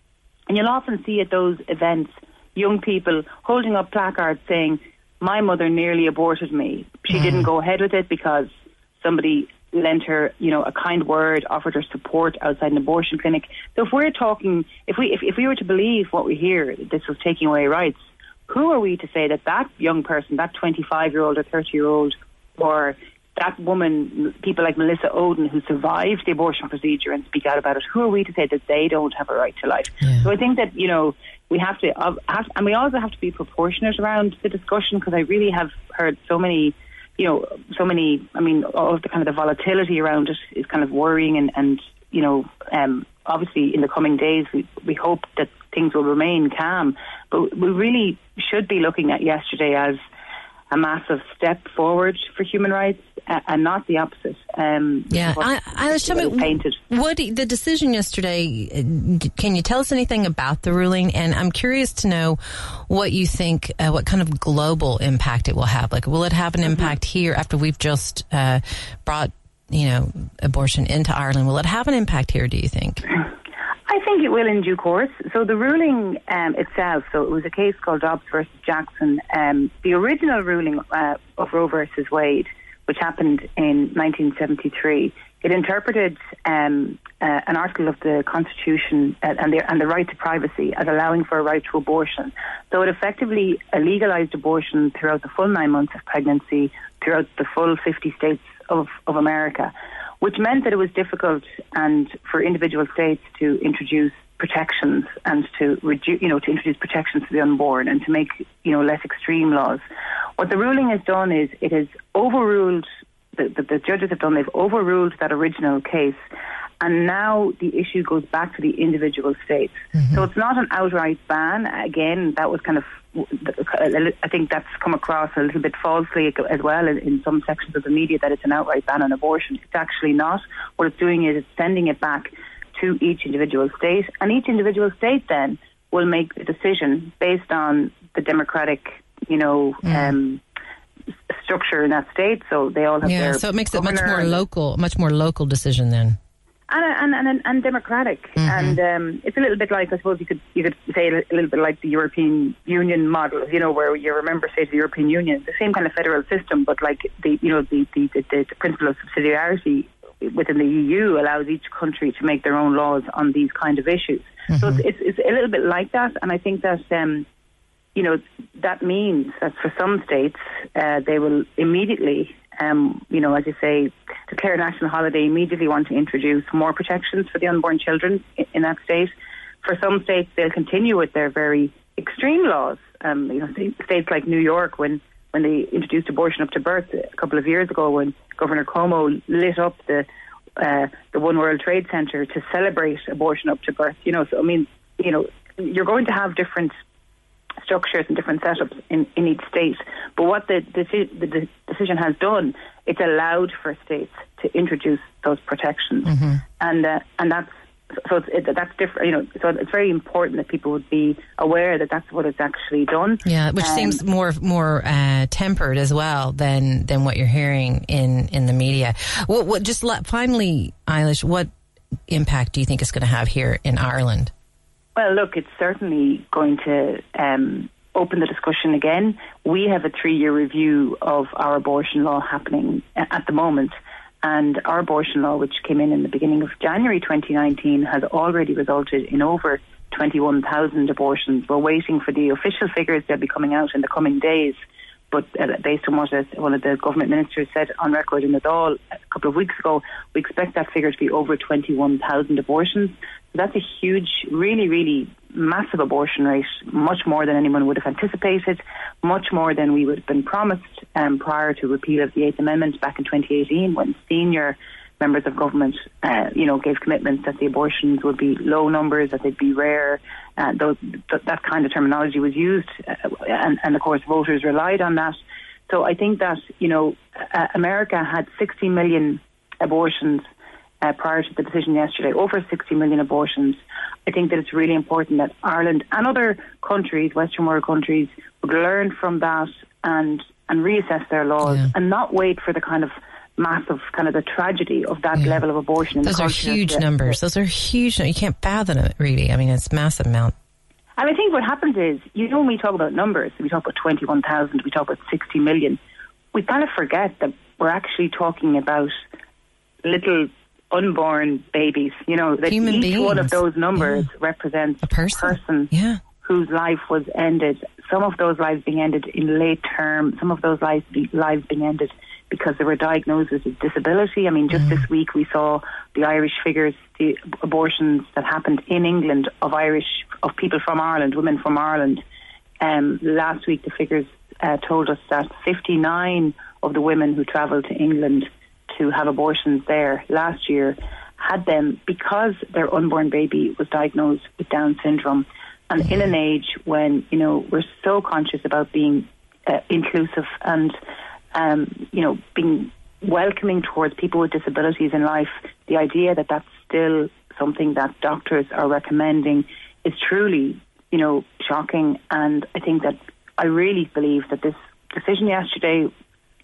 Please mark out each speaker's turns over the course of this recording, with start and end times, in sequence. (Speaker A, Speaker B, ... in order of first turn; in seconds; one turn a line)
Speaker A: 0.5-50.0
Speaker B: 30.0-30.3
Speaker A: 50.7-56.8
Speaker B: 55.1-73.0
Speaker A: 73.9-109.8
Speaker A: 110.4-116.2
Speaker A: 116.8-140.4
Speaker B: 139.8-140.1
Speaker A: 141.3-144.4
Speaker B: 143.0-146.2
Speaker A: 146.7-167.3
Speaker B: 148.4-148.8
Speaker A: 167.9-179.1
Speaker A: 179.6-196.7
Speaker A: 197.6-214.0
Speaker B: 206.1-206.4
Speaker B: 213.2-221.5
Speaker B: 222.1-224.3
Speaker A: 224.9-244.6
Speaker A: 245.1-280.3
Speaker A: 280.8-297.1
Speaker B: 291.4-291.7
Speaker B: 296.0-300.3
Speaker A: 301.0-305.8
Speaker A: 306.3-308.9
Speaker A: 309.8-315.7
Speaker B: 312.5-314.0
Speaker B: 314.8-316.0
Speaker A: 316.2-332.0
Speaker A: 332.6-350.8
Speaker A: 351.3-365.9